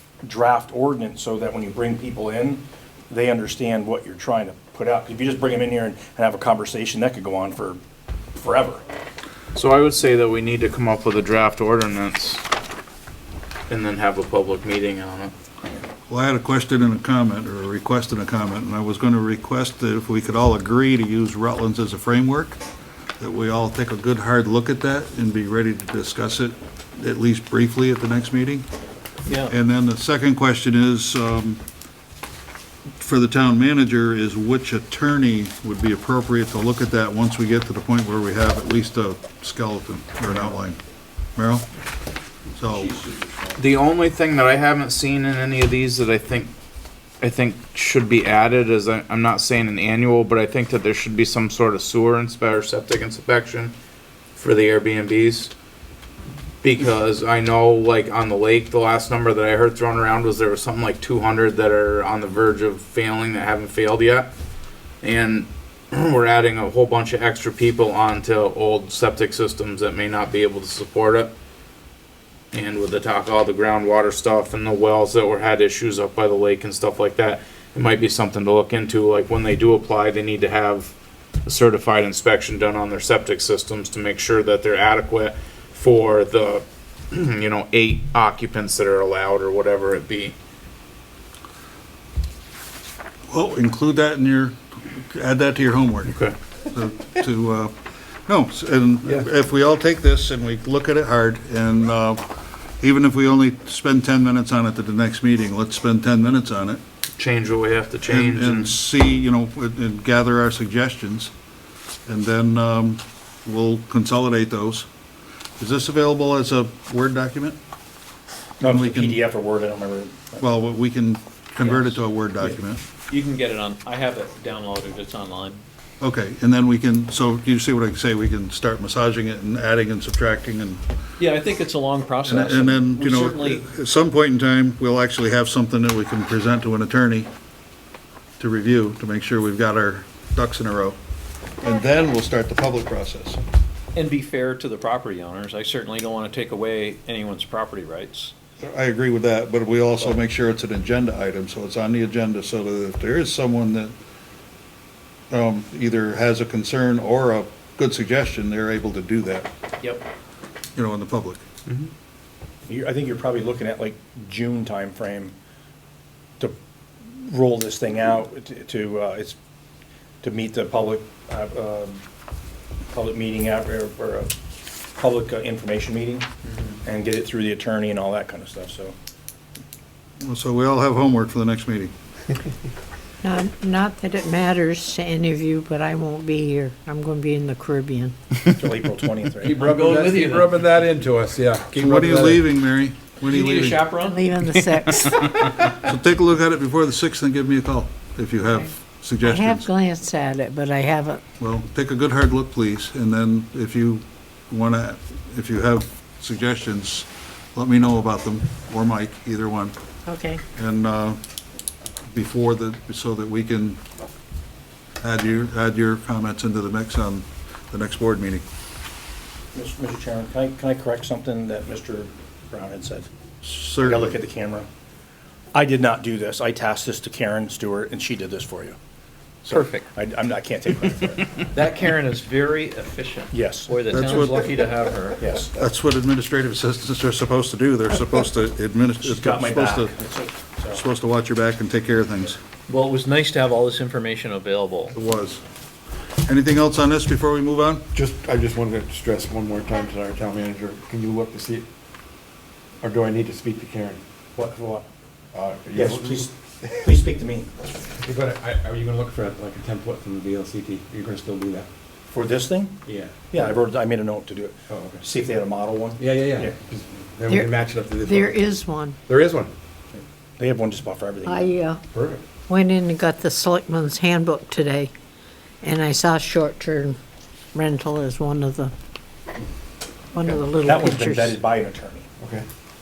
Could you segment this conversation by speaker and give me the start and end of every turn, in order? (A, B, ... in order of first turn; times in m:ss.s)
0:00.2-0:07.8 A
0:08.4-0:08.8 A
0:09.5-0:12.4 B
0:13.7-0:15.3 B
0:16.1-0:22.6 C
0:23.2-0:28.7 C
0:29.3-0:29.5 D
0:29.5-0:31.6 C
0:33.0-0:40.8 C
0:41.4-0:41.6 C
0:42.6-0:43.0 C
0:43.6-0:46.5 B
0:47.2-0:53.7 B
0:54.4-0:55.5 B
0:56.6-1:04.3 B
1:05.0-1:11.3 B
1:12.5-1:20.9 B
1:21.4-1:30.3 B
1:33.3-1:36.2 C
1:36.1-1:36.3 B
1:36.7-1:37.7 C
1:38.2-1:42.2 C
1:42.8-1:46.8 C
1:47.2-1:48.8 B
1:48.0-1:51.3 C
1:52.1-1:54.8 C
1:55.6-1:57.6 C
1:58.6-2:00.4 A
1:58.6-1:59.2 C
2:00.4-2:02.8 C
2:01.6-2:02.0 D
2:03.1-2:05.6 D
2:06.0-2:10.8 C
2:11.2-2:13.6 D
2:12.2-2:17.3 C
2:18.4-2:21.0 C
2:21.6-2:23.4 C
2:24.0-2:28.3 D
2:28.6-2:33.9 C
2:35.3-2:39.5 C
2:40.8-2:41.4 C
2:42.7-2:45.3 A
2:47.2-2:49.4 A
2:50.2-2:52.0 A
2:52.9-2:54.3 A
2:55.0-2:56.3 A
2:56.8-2:59.0 A
3:00.2-3:01.9 C
3:03.2-3:08.1 E
3:08.5-3:09.7 A
3:09.4-3:12.4 F
3:09.7-3:10.4 D
3:11.7-3:13.8 C
3:13.2-3:14.3 D
3:14.0-3:15.5 E
3:15.7-3:19.7 C
3:19.2-3:21.2 E
3:21.4-3:29.7 C
3:30.1-3:30.4 E
3:30.5-3:31.2 C
3:32.1-3:33.8 C
3:35.0-3:38.4 C
3:39.5-3:43.1 A
3:43.4-3:44.2 C
3:43.8-3:44.7 A
3:45.5-3:48.8 A
3:49.4-3:51.4 A
3:49.5-3:49.9 D
3:51.5-3:55.3 D
3:53.3-3:53.7 A
3:53.9-3:54.5 C
3:55.2-3:55.5 A
3:55.5-3:59.9 C
3:59.0-4:00.8 A
4:00.7-4:02.4 C
4:02.7-4:05.0 D
4:04.9-4:05.4 C
4:06.2-4:07.8 C
4:07.9-4:11.7 G
4:12.8-4:14.0 G
4:14.4-4:14.9 A
4:15.3-4:16.3 G
4:15.7-4:17.5 A
4:18.0-4:21.7 F
4:22.1-4:22.8 A
4:22.9-4:23.1 F
4:23.3-4:26.6 A
4:24.7-4:25.0 F
4:26.0-4:28.4 F
4:27.3-4:29.0 E
4:29.1-4:29.5 F
4:29.9-4:31.5 A
4:31.2-4:31.8 E
4:31.9-4:32.2 F
4:32.5-4:34.9 E
4:35.6-4:37.0 E
4:37.5-4:38.7 E
4:40.1-4:41.4 E
4:40.2-4:42.1 A
4:42.2-4:42.4 G